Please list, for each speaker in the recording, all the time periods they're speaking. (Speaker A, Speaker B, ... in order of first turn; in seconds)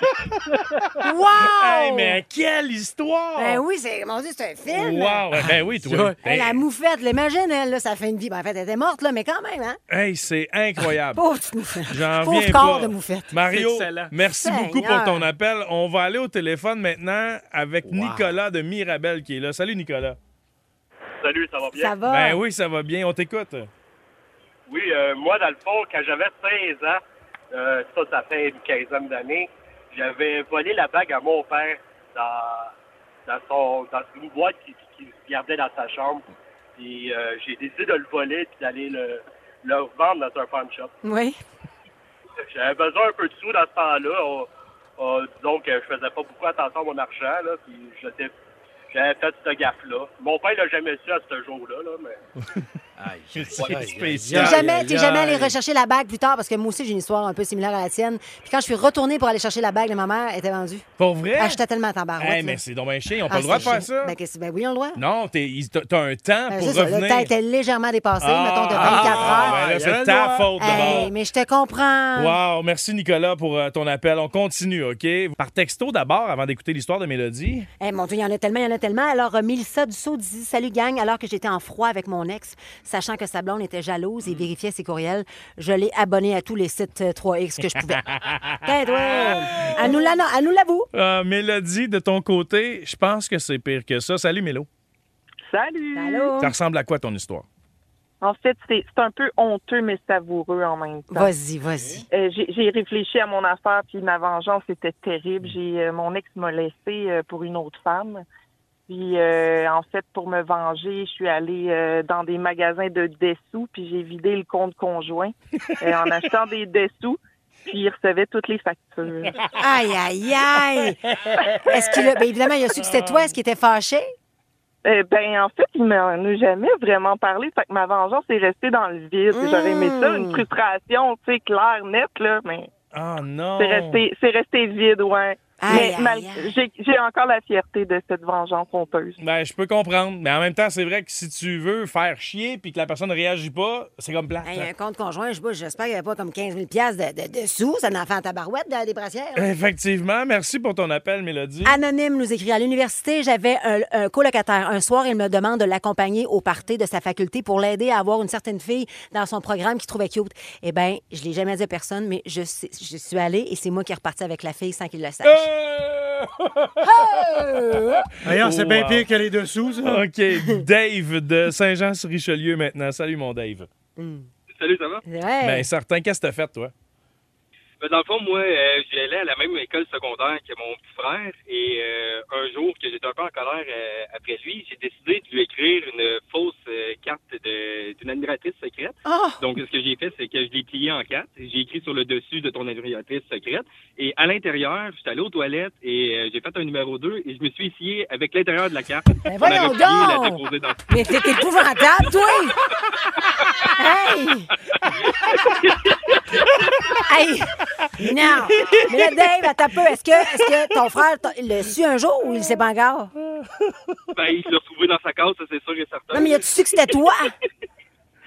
Speaker A: 1.0-2.2, 3.4-5.2, 6.2-9.8, 11.2-13.3, 14.2-15.3, 21.8-22.4, 41.0-41.4, 54.3-62.6, 63.3-65.0, 66.5-69.6, 70.6-72.4, 77.8-88.0, 88.6-90.9, 95.9-96.5, 101.1-102.0, 119.6-121.0, 121.6-124.1, 129.3-130.4, 135.6-136.5, 144.4-149.5, 151.6-165.5, 166.8-168.0, 170.3-170.6, 174.0-174.3, 175.1-175.7, 189.1-189.4, 199.2-202.6, 203.8-204.5, 207.1-213.1, 216.1-217.3
Speaker B: 1.4-3.6, 4.7-6.6, 9.9-11.2, 11.9-20.2, 22.1-23.7, 53.3-55.5, 61.0-61.6, 62.2-64.2, 65.0-67.3, 68.2-71.1, 72.2-77.7, 89.1-90.0, 90.9-94.7, 96.4-97.4, 122.8-123.3, 132.9-134.0, 139.2-144.7, 149.3-151.7, 165.2-169.0, 169.8-173.7, 175.4-176.7
Speaker C: 5.3-6.1, 13.3-14.1, 17.8-18.3, 53.0-55.3, 68.7-71.1, 168.2-170.0
Speaker D: 21.2-22.0, 24.7-32.7, 33.2-36.2, 36.8-40.9, 42.4-48.3, 48.9-52.2
Speaker E: 95.5-96.3, 98.2-101.3, 102.1-108.2, 108.9-119.4, 124.8-132.7, 133.6-139.2
Speaker F: 174.5-175.0, 177.8-201.5, 204.9-206.2, 214.1-216.4